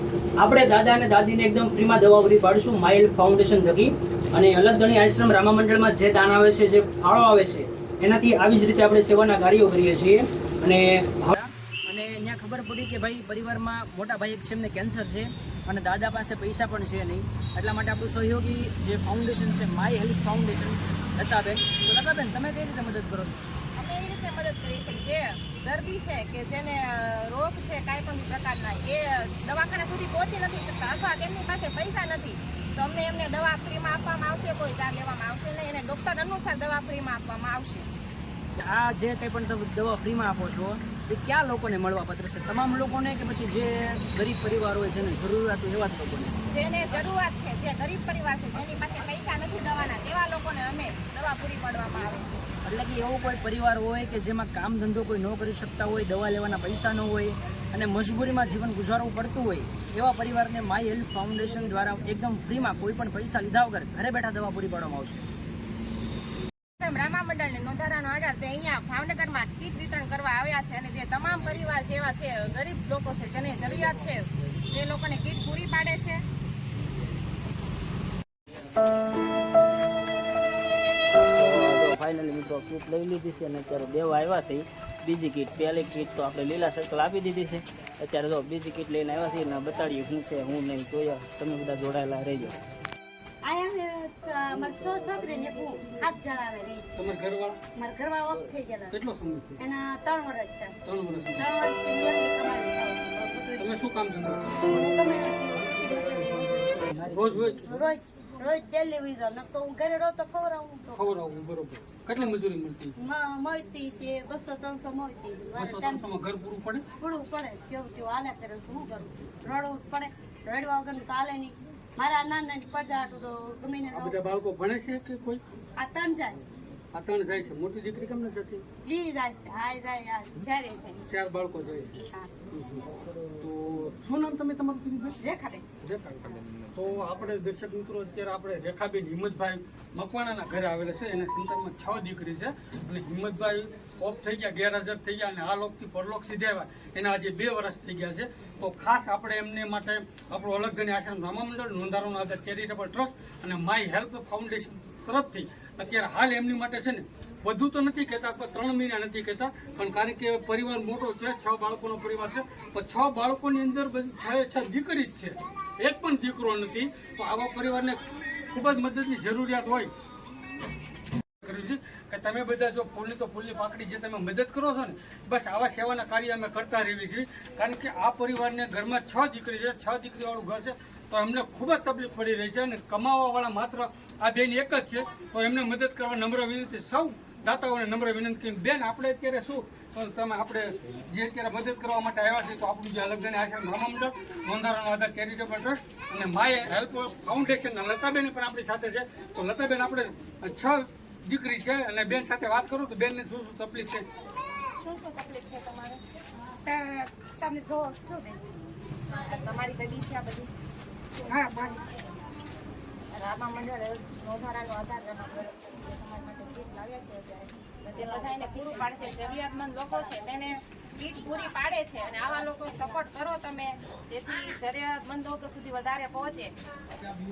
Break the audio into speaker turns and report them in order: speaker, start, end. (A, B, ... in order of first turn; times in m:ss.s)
0:00.4-0:23.4 A
0:23.7-0:37.9 B
0:38.6-0:46.4 A
0:46.5-0:52.4 B
0:52.6-1:05.2 A
1:06.8-1:16.2 B
1:21.4-1:32.6 C
1:33.4-1:37.0 D
1:37.0-1:37.6 E
1:37.7-1:39.0 D
1:38.9-1:39.6 E
1:39.6-1:40.7 D
1:40.8-1:41.7 E
1:41.3-1:43.7 D
1:43.6-1:44.6 E
1:44.6-1:51.0 D
1:47.0-1:47.8 E
1:50.9-1:52.9 E
1:53.0-1:56.0 D
1:55.6-1:56.8 E
1:57.0-2:04.2 D
2:03.9-2:05.4 E
2:05.8-2:06.4 D
2:06.9-2:08.6 E
2:08.8-2:10.6 D
2:11.1-2:12.8 E
2:13.4-2:15.2 E
2:15.8-2:48.0 E
2:48.5-2:49.9 E
2:51.4-3:24.0 E
3:24.8-3:26.0 B
3:26.6-3:28.4 D
3:29.2-3:30.5 B
3:31.3-3:32.0 B
3:33.1-3:46.5 B